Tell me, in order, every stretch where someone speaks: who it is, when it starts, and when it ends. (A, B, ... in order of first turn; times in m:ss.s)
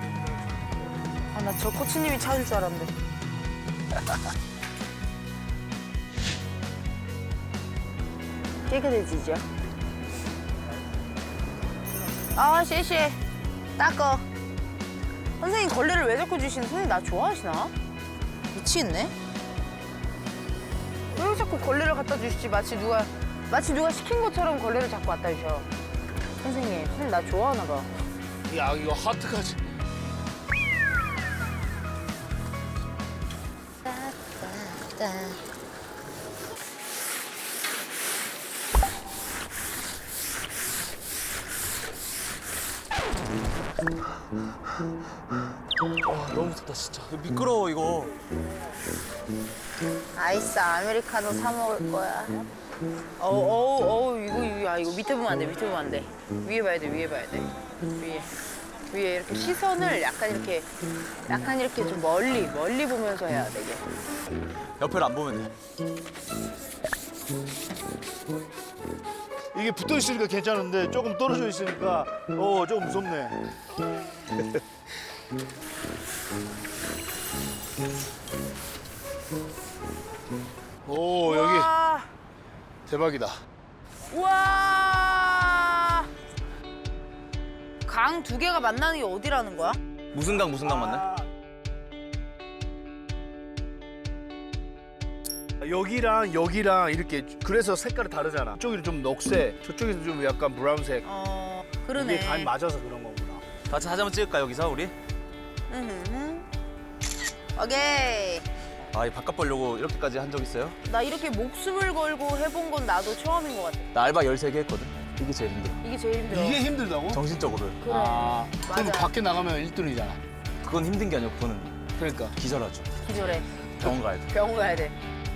0:01.3-0:02.9 A
0:08.7-0:09.5 A
0:12.3-0:13.2 A
0:13.8-0:14.2 A
0:15.4-0:17.7 A
0:18.5-0:19.1 A
0:21.2-0:25.7 A
0:26.4-0:27.9 A
0:28.5-0:29.6 B
0:33.8-0:35.4 A
0:46.0-0:48.2 C
0:50.2-0:52.5 A
0:53.2-0:58.3 A
0:58.9-1:00.7 A
1:01.2-1:03.8 A
1:04.8-1:05.5 C
1:09.5-1:13.4 B
1:20.8-1:21.7 B
1:21.2-1:22.1 A
1:22.9-1:23.4 B
1:24.1-1:26.1 A
1:27.9-1:29.8 A
1:30.1-1:31.1 C
1:30.6-1:31.3 B
1:35.6-1:41.1 B
1:41.0-1:42.5 A
1:42.0-1:43.4 B
1:43.7-1:44.9 C
1:45.7-1:46.5 A
1:47.6-1:48.5 A
1:48.9-1:50.8 C
1:50.9-1:53.9 A
1:53.9-1:55.8 C
1:55.8-1:56.6 A
1:56.3-1:57.2 B
1:57.1-1:57.8 C
1:57.8-1:59.1 A
1:57.9-2:00.2 B
2:00.6-2:01.8 C
2:02.0-2:02.4 B
2:02.4-2:02.9 C
2:03.0-2:03.5 A
2:03.8-2:04.3 C
2:04.3-2:05.0 A